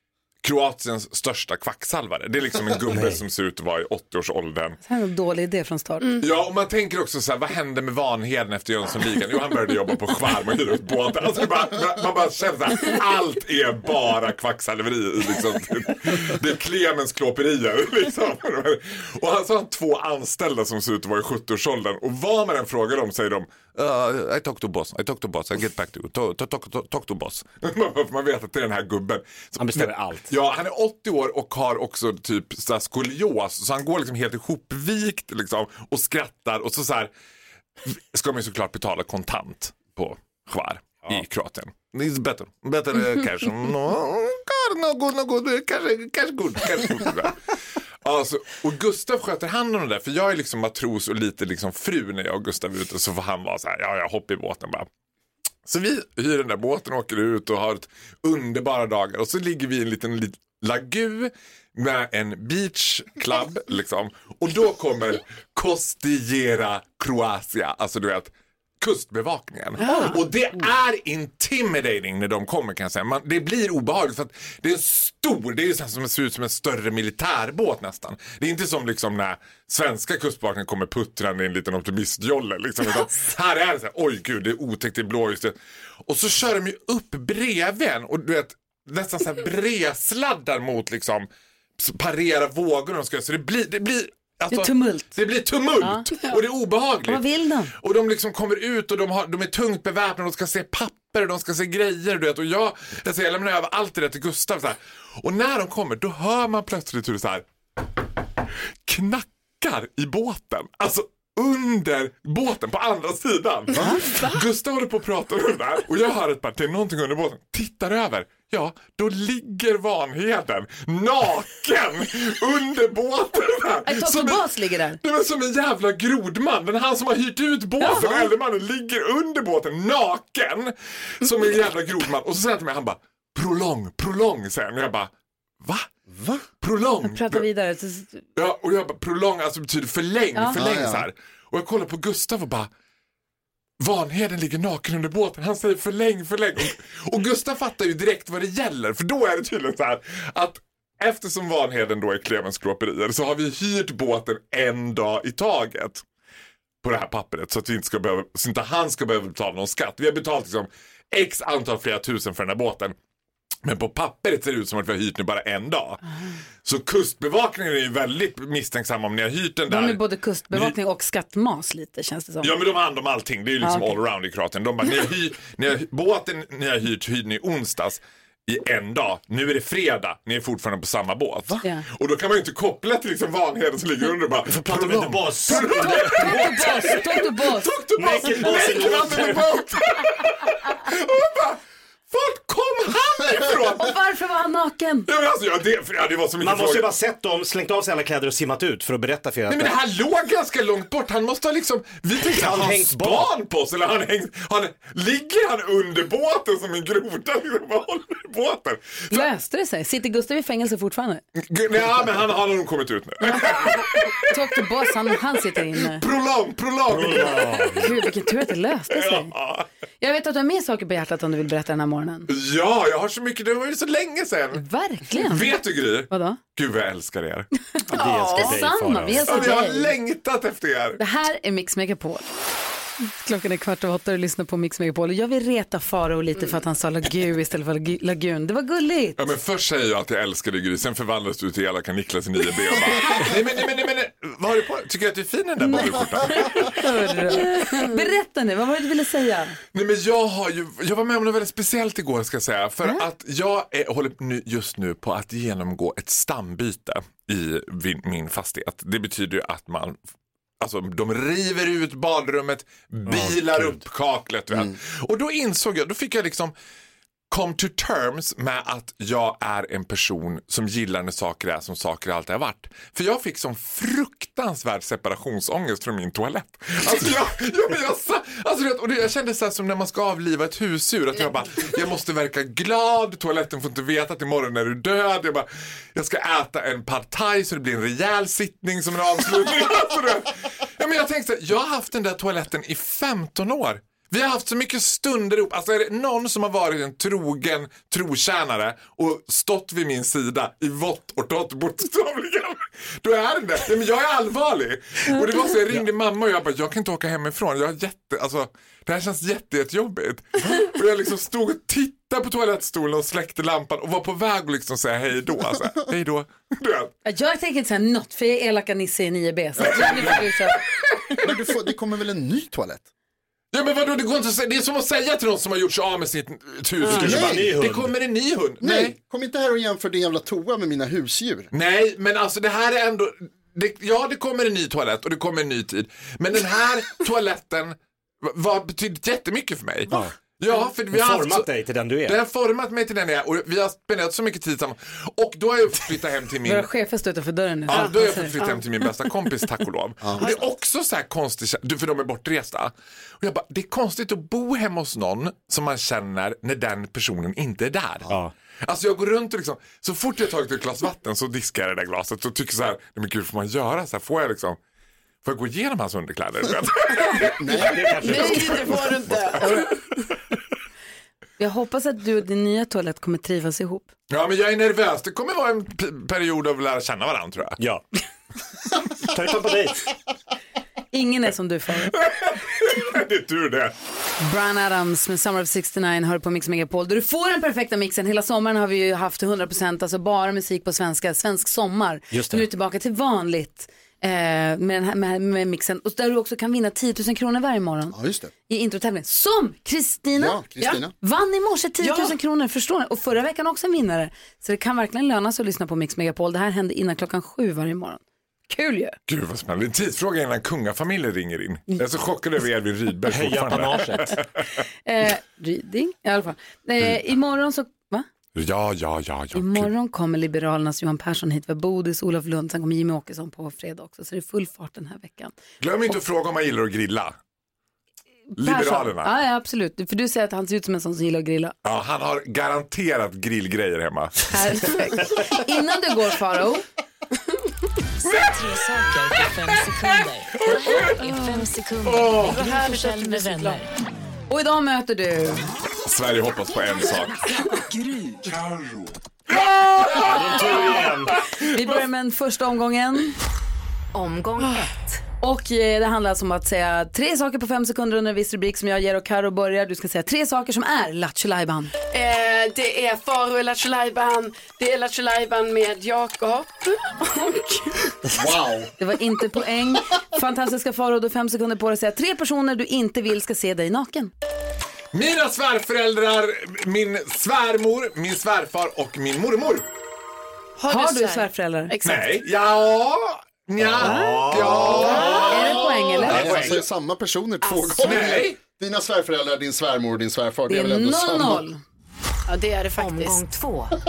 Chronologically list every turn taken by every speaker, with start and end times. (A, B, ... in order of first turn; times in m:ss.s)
0:00.4-0:04.8 A
0:02.9-0:03.2 B
0:04.8-0:06.2 C
0:06.2-0:37.1 A
0:29.6-0:30.3 B
0:37.8-0:47.4 A
0:48.0-0:54.9 A
0:55.6-1:31.3 A
1:09.8-1:10.2 D
1:31.8-1:37.2 A
1:34.5-1:35.1 C
1:35.8-1:36.1 C
1:37.0-1:37.7 C
1:37.8-1:47.4 A
1:48.8-2:04.4 A
1:53.9-1:54.4 D
2:03.9-2:05.0 C
2:05.0-2:15.9 A
2:07.8-2:08.2 C
2:16.1-2:16.4 E
2:16.6-2:17.5 A
2:17.0-2:18.2 C
2:18.4-2:22.7 A
2:20.3-2:20.6 C
2:20.5-2:21.1 E
2:23.8-2:36.0 A
2:36.8-2:42.9 A
2:43.6-2:46.0 A
2:46.6-2:50.7 A
2:49.7-2:52.6 C
2:52.4-3:11.6 A
2:53.6-2:54.0 C
3:04.5-3:07.0 B
3:05.5-3:07.7 C
3:08.0-3:09.6 B
3:12.1-3:14.0 A
3:13.8-3:15.1 C
3:15.1-3:16.9 A
3:16.4-3:19.7 B
3:19.5-3:29.2 A
3:22.3-3:23.3 B
3:29.1-3:31.2 C
3:31.4-3:34.4 A
3:33.2-3:33.7 C
3:34.3-3:36.0 C
3:35.7-3:38.2 A
3:36.9-3:37.9 B
3:37.8-3:39.3 C
3:38.9-3:39.7 A
3:40.0-3:42.3 C
3:42.3-3:47.5 A
3:44.5-3:46.4 C
3:47.9-3:49.4 B
3:47.9-3:48.6 D
3:48.3-3:49.9 C
3:49.2-3:51.0 A
3:51.0-3:52.2 C
3:53.0-3:59.2 C
3:59.2-4:06.9 A
4:05.6-4:09.6 C
4:09.7-4:20.0 A
4:20.6-4:26.5 A
4:23.1-4:23.8 B
4:27.3-5:16.9 A
5:17.0-5:20.6 C
5:19.6-5:20.2 E
5:19.6-5:20.2 A
5:21.2-5:22.8 E
5:23.5-5:28.9 A
5:26.8-5:27.9 B
5:26.9-5:27.5 E
5:28.6-5:31.5 E
5:31.5-5:41.5 A
5:40.9-5:42.2 B
5:42.0-5:46.7 A
5:46.4-5:48.3 C
5:47.7-6:04.6 A
5:47.7-5:48.6 D
5:50.2-5:50.4 D
6:05.2-6:09.7 A
6:07.4-6:08.5 E
6:07.6-6:08.7 B
6:08.0-6:09.8 D
6:11.4-6:13.9 C
6:14.1-6:17.6 A
6:19.0-6:19.9 B
6:20.9-6:21.9 C
6:21.8-6:23.7 A
6:24.2-6:40.4 C
6:32.1-6:32.4 B
6:37.9-6:38.3 E
6:40.2-6:40.9 E
6:41.0-6:49.0 C
6:41.8-6:42.1 D
6:49.1-6:54.4 A
6:53.1-6:54.2 B
6:54.8-6:58.1 C
6:58.3-6:59.7 A
6:59.3-7:05.3 C
7:05.6-7:07.2 A
7:08.3-7:11.6 C
7:08.4-7:09.1 A
7:11.6-7:14.8 A
7:14.3-7:16.6 C
7:18.0-7:21.2 A
7:18.9-7:23.6 F
7:21.0-7:21.5 D
7:21.8-7:22.4 A
7:22.2-7:23.6 D
7:24.3-7:25.4 C
7:25.8-7:27.3 A
7:28.3-7:31.7 A
7:29.9-7:31.2 B
7:30.4-7:30.7 C
7:31.4-7:33.1 C
7:34.0-7:34.5 F
7:34.4-7:34.7 D
7:35.2-7:41.7 C
7:41.9-7:47.9 D
7:48.1-7:48.7 E
7:48.8-7:54.1 C
7:54.9-7:59.7 A
8:00.6-8:02.0 D
8:00.7-8:01.7 C
8:01.8-8:06.4 A
8:03.6-8:05.4 B
8:03.8-8:04.4 C
8:04.7-8:11.4 E
8:05.0-8:05.3 D
8:05.3-8:06.4 C
8:06.0-8:06.6 B
8:07.4-8:08.1 D
8:07.8-8:08.4 A
8:10.5-8:11.6 C
8:12.3-8:13.2 D
8:12.8-8:13.7 F